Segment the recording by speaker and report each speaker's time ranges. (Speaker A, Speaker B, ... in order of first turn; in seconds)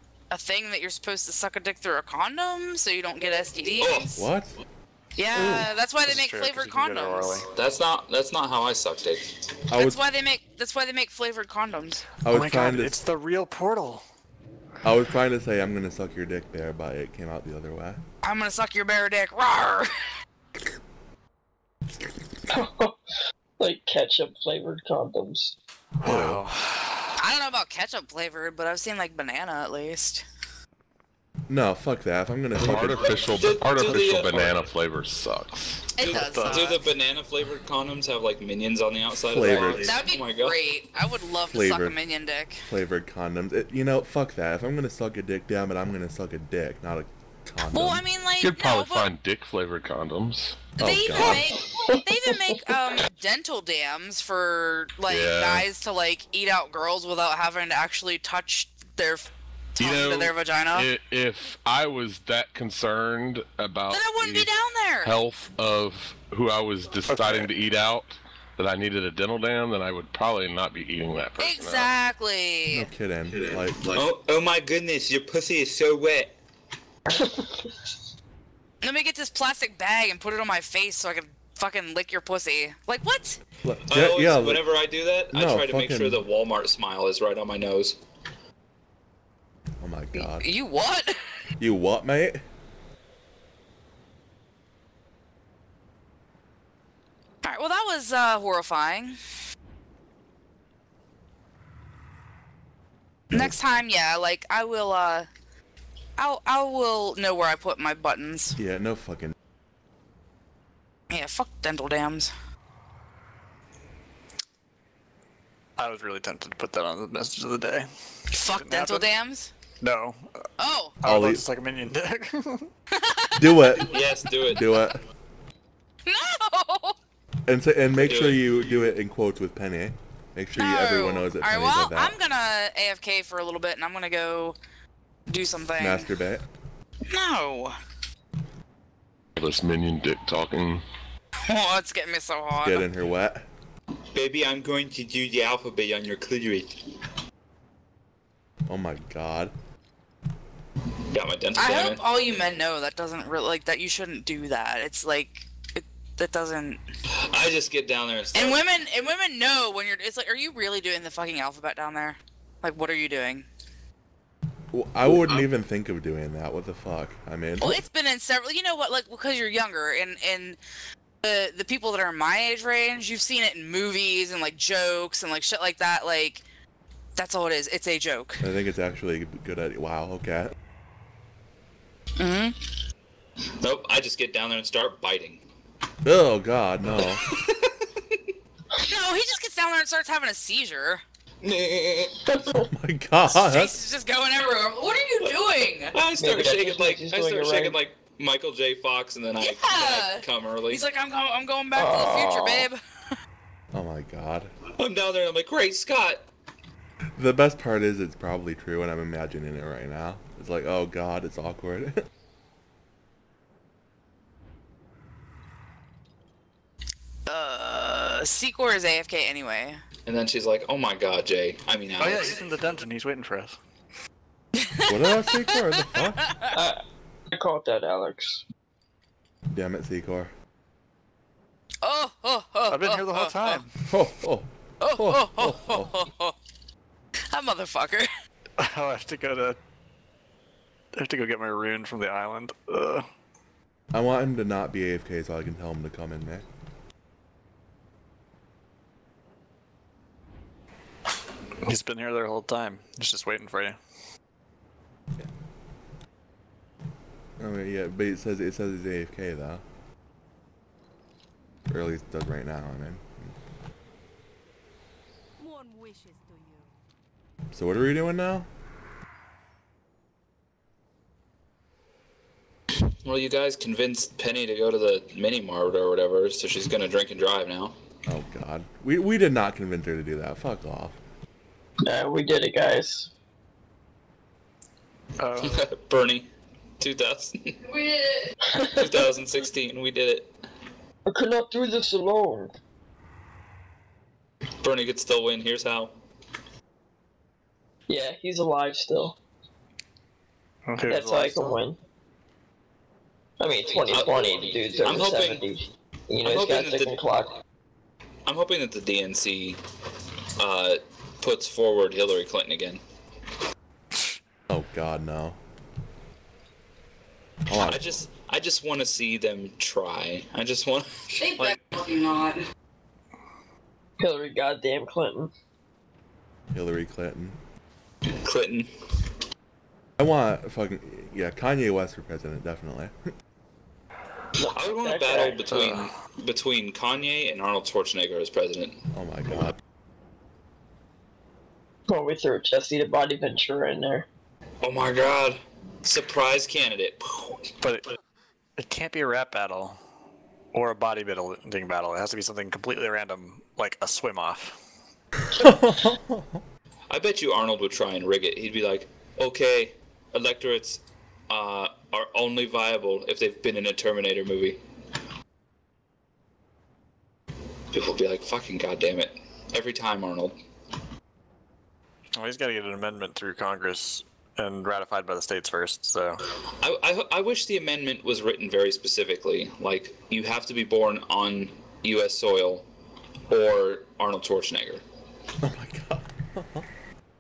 Speaker A: 0.3-4.2, 5.2-7.4, 9.7-12.1, 18.2-20.1, 27.2-30.2, 36.0-36.8, 39.8-42.6, 47.7-49.1, 50.8-60.9, 63.9-65.1, 71.4-72.9, 78.8-83.4, 90.1-91.4, 97.4-99.2, 103.3-105.3, 106.2-108.5, 111.1-112.3, 118.3-119.5, 120.6-121.0, 122.9-123.5, 126.0-127.0, 130.6-134.6, 135.3-136.1, 137.1-137.8, 141.5-142.9, 151.6-156.8, 158.3-163.4, 167.6-170.6, 171.2-176.4, 177.2-178.4, 182.2-182.6, 187.2-187.6, 188.9-191.0, 193.3-196.0, 199.4-203.1, 217.3-219.8, 224.6-226.6, 231.8-233.6, 234.8-236.4, 237.3-238.1, 287.7-288.3, 321.2-322.4
Speaker B: 3.8-4.1, 7.5-9.4, 33.3-34.6, 36.0-40.6, 73.9-76.3, 83.9-88.0, 123.9-124.7, 128.0-128.4, 144.1-146.8, 151.1-152.0, 157.1-158.6, 165.2-165.4, 183.6-185.4, 191.4-192.2, 195.9-200.8, 204.8-206.2, 220.1-222.4, 273.0-277.8, 285.4-286.3, 286.8-287.6, 288.6-290.3, 294.6-295.9, 303.9-305.4, 306.2-307.0, 308.3-309.6, 310.4-312.8, 317.5-321.2, 328.1-328.9, 334.5-338.8, 344.6-347.5, 356.9-364.6, 367.7-370.4, 376.5-382.7, 383.3-384.8
Speaker C: 4.2-4.5, 5.3-5.7, 9.7-10.0, 12.2-12.9, 14.8-18.0, 26.0-26.4, 31.5-33.4, 39.3-40.0, 41.5-42.0, 42.7-48.0, 50.8-51.6, 72.7-74.0, 83.6-84.6, 85.3-86.2, 89.8-90.5, 91.6-92.4, 103.3-103.6, 108.6-109.3, 121.0-121.4, 123.4-125.0, 127.5-132.2, 135.8-136.4, 142.6-143.4, 148.7-149.5, 164.7-167.8, 178.4-180.5, 186.0-187.2, 192.6-193.7, 203.7-204.5, 207.2-212.0, 224.9-226.3, 229.5-230.3, 233.9-235.9, 243.9-246.4, 257.4-259.6, 261.7-263.4, 267.5-268.5, 278.1-281.0, 314.5-315.4, 317.5-318.0, 326.5-327.4, 330.0-333.1, 338.9-339.6, 355.4-356.4, 385.4-386.7
Speaker D: 6.0-7.5, 12.3-14.0, 26.0-27.1, 36.1-36.6, 67.1-67.5, 115.8-117.9, 118.5-119.1, 119.8-120.5, 121.0-122.7, 222.0-223.6, 232.7-233.7, 238.6-239.6, 240.9-243.1, 251.6-253.8, 285.2-285.7, 300.7-301.6, 347.6-347.9, 348.6-349.8, 350.5-354.6, 372.1-376.2
Speaker E: 22.5-23.0, 23.6-25.6, 51.4-52.7, 77.1-77.8, 192.3-192.7, 196.2-197.8, 201.7-202.7, 226.5-226.8, 227.3-228.4, 281.8-283.1, 288.5-288.9, 291.1-292.5, 297.9-299.2, 300.9-301.8, 303.4-307.3, 324.0-325.3, 334.4-335.7, 341.9-344.1
Speaker F: 32.5-35.8, 48.4-50.8, 55.1-55.7, 59.8-64.5, 65.0-71.9, 139.4-140.8